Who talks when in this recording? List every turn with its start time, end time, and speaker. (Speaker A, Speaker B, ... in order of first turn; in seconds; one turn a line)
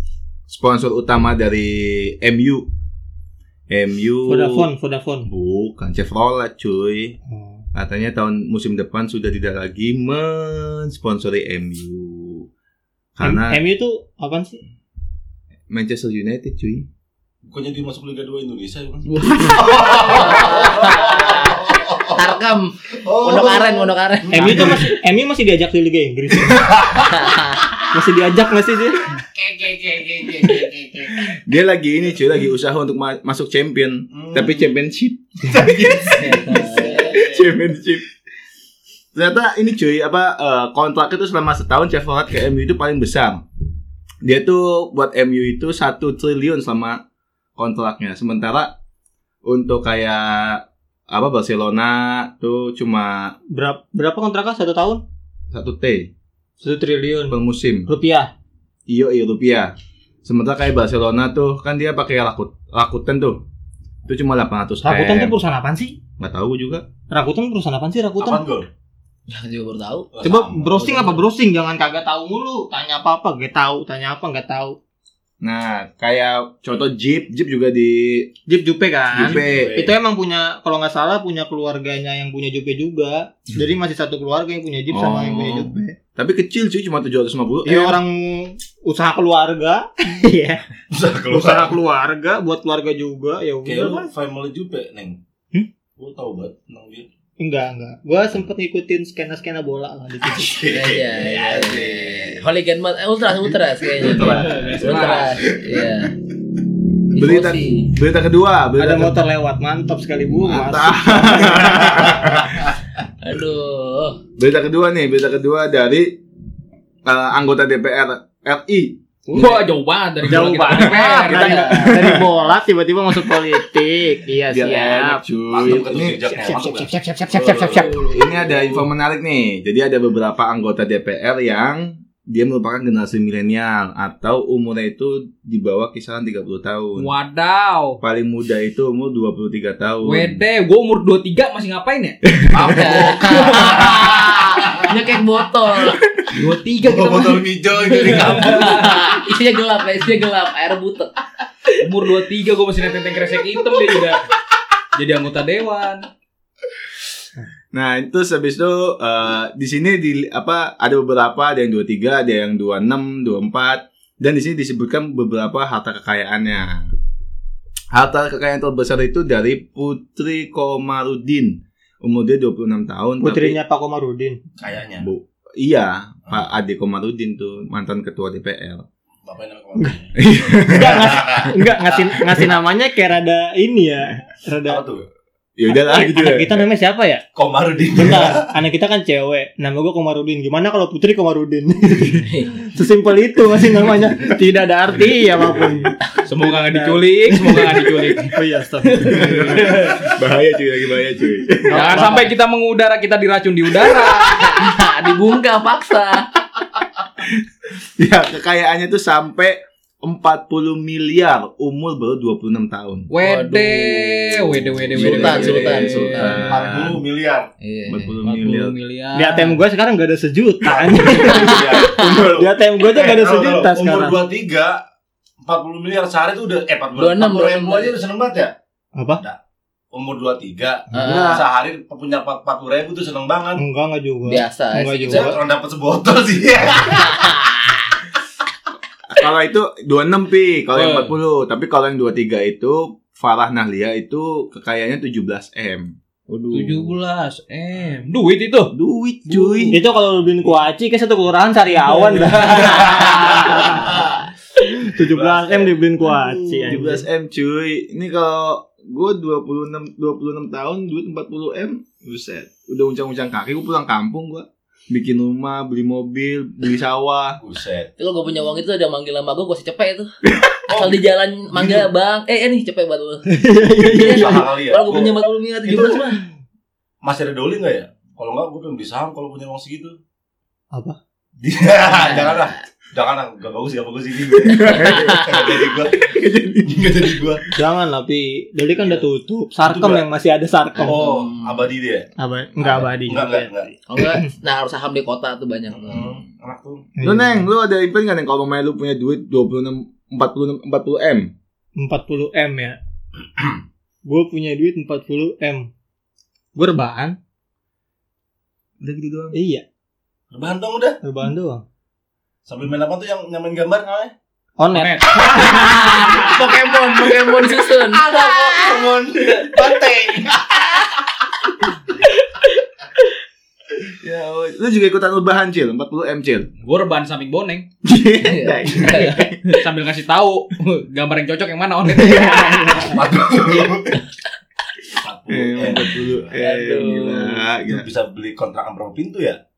Speaker A: 0.5-2.7
Speaker A: 3.7-4.7
Speaker B: 4.3-5.3
Speaker A: 5.3-7.2
Speaker B: 7.3-7.6
Speaker A: 7.7-12.5
Speaker A: 13.2-13.6
Speaker B: 13.2-14.6
Speaker A: 15.7-16.9
Speaker C: 17.4-22.4
Speaker D: 19.9-24.9
Speaker C: 23.0-24.9
Speaker B: 24.3-26.7
Speaker C: 26.4-27.2
Speaker D: 27.1-27.7
Speaker B: 27.9-29.1
Speaker C: 29.4-31.0
Speaker D: 30.2-30.7
Speaker A: 31.1-36.3
Speaker C: 34.1-34.7
Speaker C: 35.5-37.5
Speaker D: 36.2-37.2
Speaker A: 37.0-38.1
Speaker A: 39.1-43.4
Speaker A: 44.2-47.0
Speaker A: 47.6-48.7
Speaker A: 49.4-53.4
Speaker B: 53.5-55.0
Speaker A: 55.5-56.1
Speaker B: 56.6-58.3
Speaker A: 57.3-57.9
Speaker A: 58.9-59.7
Speaker A: 60.2-63.4
Speaker A: 64.1-65.3
Speaker B: 64.8-66.0
Speaker A: 66.2-66.9
Speaker B: 67.1-68.5
Speaker C: 68.2-68.7
Speaker D: 69.3-70.1
Speaker C: 70.1-71.2
Speaker B: 70.2-74.8
Speaker A: 75.4-78.3
Speaker B: 78.5-86.0
Speaker A: 79.1-79.8
Speaker C: 79.3-79.9
Speaker A: 84.9-88.0
Speaker B: 87.7-90.6
Speaker C: 90.9-91.8
Speaker B: 91.3-94.1
Speaker C: 93.7-95.2
Speaker C: 96.0-97.1
Speaker B: 97.4-100.7
Speaker C: 100.4-102.4
Speaker D: 100.7-106.1
Speaker A: 104.0-104.7
Speaker C: 104.1-105.8
Speaker E: 104.2-105.5
Speaker D: 107.2-107.9
Speaker A: 107.2-109.2
Speaker B: 108.8-112.2
Speaker A: 110.3-112.6
Speaker D: 113.2-114.2
Speaker A: 114.4-116.2
Speaker A: 117.0-119.0
Speaker B: 119.3-119.6
Speaker E: 119.3-121.9
Speaker B: 120.2-125.8
Speaker D: 121.3-121.8
Speaker A: 121.8-122.3
Speaker A: 124.5-126.2
Speaker C: 125.5-128.0
Speaker B: 126.3-128.3
Speaker A: 127.7-137.1
Speaker E: 137.0-138.0
Speaker A: 138.0-140.4
Speaker E: 140.0-142.2
Speaker A: 142.4-142.7
Speaker C: 142.5-144.9
Speaker D: 142.6-146.1
Speaker E: 143.3-144.0
Speaker E: 146.3-148.9
Speaker C: 146.4-149.0
Speaker D: 147.9-151.1
Speaker E: 151.8-154.3
Speaker E: 155.0-156.1
Speaker A: 157.7-166.9
Speaker A: 167.9-173.6
Speaker B: 173.2-174.4
Speaker C: 174.6-175.1
Speaker A: 175.0-178.9
Speaker C: 179.3-182.0
Speaker A: 180.2-181.3
Speaker B: 180.7-184.8
Speaker C: 184.7-185.1
Speaker A: 185.6-186.7
Speaker B: 185.7-187.2
Speaker C: 187.3-188.5
Speaker B: 187.9-197.6
Speaker D: 192.2-192.6
Speaker E: 196.3-199.8
Speaker B: 198.3-199.4
Speaker A: 199.0-202.0
Speaker C: 199.2-200.2
Speaker B: 201.7-202.3
Speaker E: 201.7-204.6
Speaker D: 204.1-206.3
Speaker A: 208.0-213.1
Speaker E: 213.1-216.5
Speaker D: 213.2-216.5
Speaker A: 214.5-217.0
Speaker C: 216.5-217.5
Speaker D: 217.6-218.2
Speaker A: 217.9-218.8
Speaker E: 218.2-219.6
Speaker B: 219.1-224.2
Speaker C: 220.6-224.8
Speaker D: 221.2-222.0
Speaker A: 221.9-222.5
Speaker C: 225.4-228.6
Speaker D: 227.0-228.0
Speaker B: 228.9-229.2
Speaker C: 229.9-233.6
Speaker D: 230.9-231.4
Speaker A: 230.9-231.4
Speaker B: 233.6-235.4
Speaker D: 234.3-235.3
Speaker C: 235.1-237.4
Speaker D: 237.0-237.9
Speaker A: 239.1-245.9
Speaker E: 240.7-241.2
Speaker D: 246.3-246.9
Speaker E: 246.5-248.7
Speaker A: 248.7-249.8
Speaker E: 249.3-249.9
Speaker B: 249.7-254.1
Speaker E: 252.5-252.9
Speaker D: 252.9-253.5
Speaker C: 253.7-254.1
Speaker B: 254.6-257.1
Speaker C: 254.9-255.8
Speaker A: 256.2-267.4
Speaker C: 267.4-267.9
Speaker D: 268.0-270.1
Speaker C: 270.7-271.0
Speaker D: 270.7-276.2
Speaker C: 271.5-271.9
Speaker B: 273.3-274.5
Speaker C: 273.9-276.2
Speaker C: 277.0-280.0
Speaker B: 280.7-281.0
Speaker C: 281.4-287.4
Speaker D: 281.9-282.6
Speaker A: 284.4-285.4
Speaker D: 284.7-285.4
Speaker A: 286.0-287.3
Speaker B: 287.5-291.1
Speaker C: 288.8-289.0
Speaker C: 289.6-290.1
Speaker D: 290.8-291.7
Speaker C: 290.8-292.1
Speaker B: 292.2-293.5
Speaker C: 292.6-293.8
Speaker D: 293.9-296.1
Speaker C: 295.7-296.9
Speaker B: 297.0-297.5
Speaker A: 297.0-301.3
Speaker B: 301.8-302.8
Speaker B: 304.1-305.7
Speaker B: 306.6-307.2
Speaker A: 308.8-309.4
Speaker B: 309.3-309.6
Speaker C: 310.3-311.0
Speaker B: 311.0-311.6
Speaker C: 312.5-314.1
Speaker B: 314.6-315.0
Speaker E: 314.7-315.3
Speaker D: 315.2-318.8
Speaker C: 315.7-320.9
Speaker A: 324.0-326.5
Speaker E: 326.6-327.7
Speaker A: 327.8-329.5
Speaker D: 328.2-329.3
Speaker E: 329.5-332.9
Speaker C: 332.8-334.0
Speaker C: 334.9-336.4
Speaker A: 335.3-337.9
Speaker D: 336.4-337.3
Speaker C: 337.6-339.4